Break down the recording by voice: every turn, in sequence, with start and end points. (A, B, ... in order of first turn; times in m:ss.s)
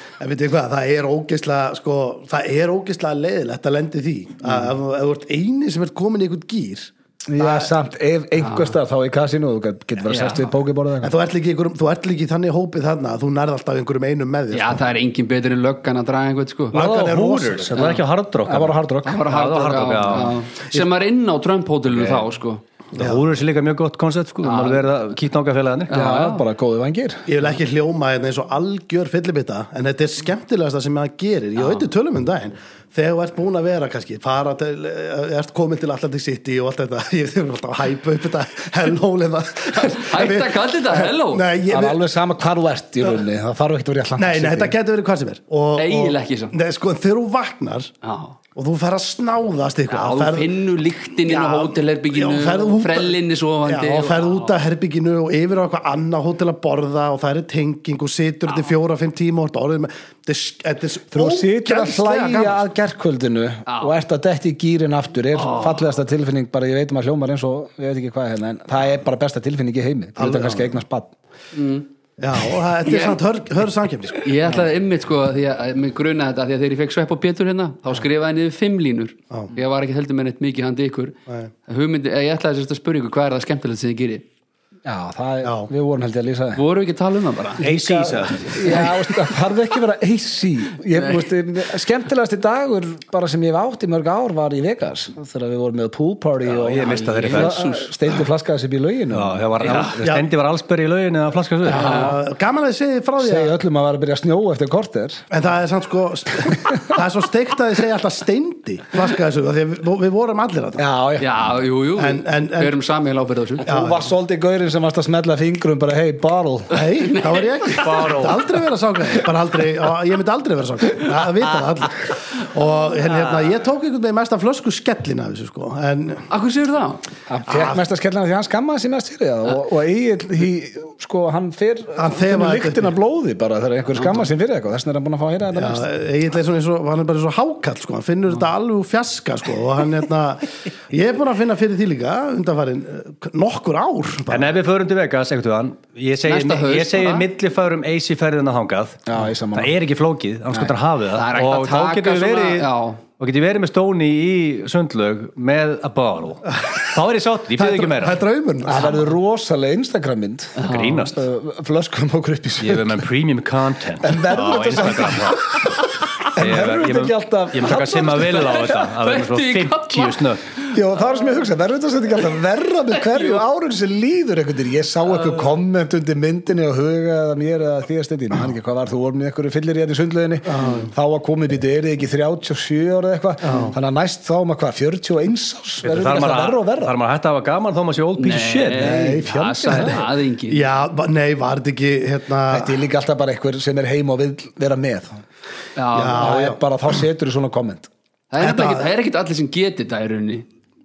0:00.2-0:07.7 A
0:07.3-0:11.1 B
0:08.4-0:08.7 C
0:10.1-0:10.5 C
0:11.0-0:14.8 A
0:14.5-0:16.8 C
0:16.7-0:17.7 A
0:16.7-0:18.7 D
0:17.8-0:18.0 C
0:18.5-0:19.3 B
0:19.0-0:22.6 C
0:19.2-0:20.5 D
0:21.9-0:22.2 D
0:23.0-0:25.9 D
0:23.0-0:23.2 A
0:24.4-0:24.9 C
0:25.9-0:26.4 C
0:25.9-0:27.2 B
0:27.3-0:42.0 A
0:31.6-0:31.9 C
0:39.7-0:41.5 C
0:41.7-0:44.8 B
0:44.2-0:47.9 A
0:45.8-0:46.5 C
0:48.0-0:48.4 C
0:48.6-0:50.6 A
0:49.9-0:54.5 C
0:51.3-1:02.6 A
1:01.1-1:11.1 B
1:03.7-1:03.9 C
1:05.4-1:05.8 C
1:10.2-1:10.8 A
1:11.5-1:11.9 C
1:12.2-1:14.3 A
1:12.8-1:13.2 C
1:14.2-1:24.2 C
1:24.8-1:26.6 B
1:25.4-1:25.7 A
1:26.6-1:27.7 C
1:27.6-1:28.6 D
1:27.6-1:40.0 B
1:28.6-1:29.1 C
1:31.0-1:31.2 C
1:36.4-1:37.7 D
1:36.7-1:37.9 C
1:39.1-1:42.1 D
1:39.6-1:39.9 C
1:40.0-1:40.3 A
1:41.6-1:43.6 A
1:41.7-1:42.2 C
1:43.2-1:45.2 B
1:45.3-1:50.8 A
1:46.7-1:47.0 B
1:50.8-1:51.3 B
1:51.2-1:53.7 C
1:52.0-1:52.8 A
1:53.6-1:56.8 B
1:53.7-1:54.1 A
1:56.7-2:06.3 A
1:57.2-1:58.0 C
1:57.8-1:58.4 D
2:06.3-2:07.0 C
2:07.3-2:15.9 B
2:12.0-2:12.9 A
2:14.0-2:14.3 C
2:15.5-2:24.5 A
2:24.3-2:29.0 D
2:26.3-2:27.3 C
2:29.1-2:29.8 B
2:29.5-2:38.2 D
2:30.5-2:33.0 C
2:37.6-2:38.9 A
2:38.6-2:43.1 B
2:40.6-2:41.2 C
2:40.6-2:41.2 D
2:42.6-2:45.7 D
2:44.0-2:48.8 B
2:46.2-2:50.4 D
2:48.5-2:51.4 C
2:50.7-3:07.0 B
2:53.0-2:53.4 C
3:00.5-3:00.9 A
3:03.4-3:03.7 A
3:05.8-3:09.0 D
3:08.2-3:10.6 C
3:08.8-3:10.1 B
3:08.9-3:12.8 A
3:12.5-3:15.2 B
3:15.8-3:16.4 C
3:15.9-3:16.6 A
3:16.0-3:17.9 B
3:18.3-3:20.5 C
3:18.4-3:18.9 A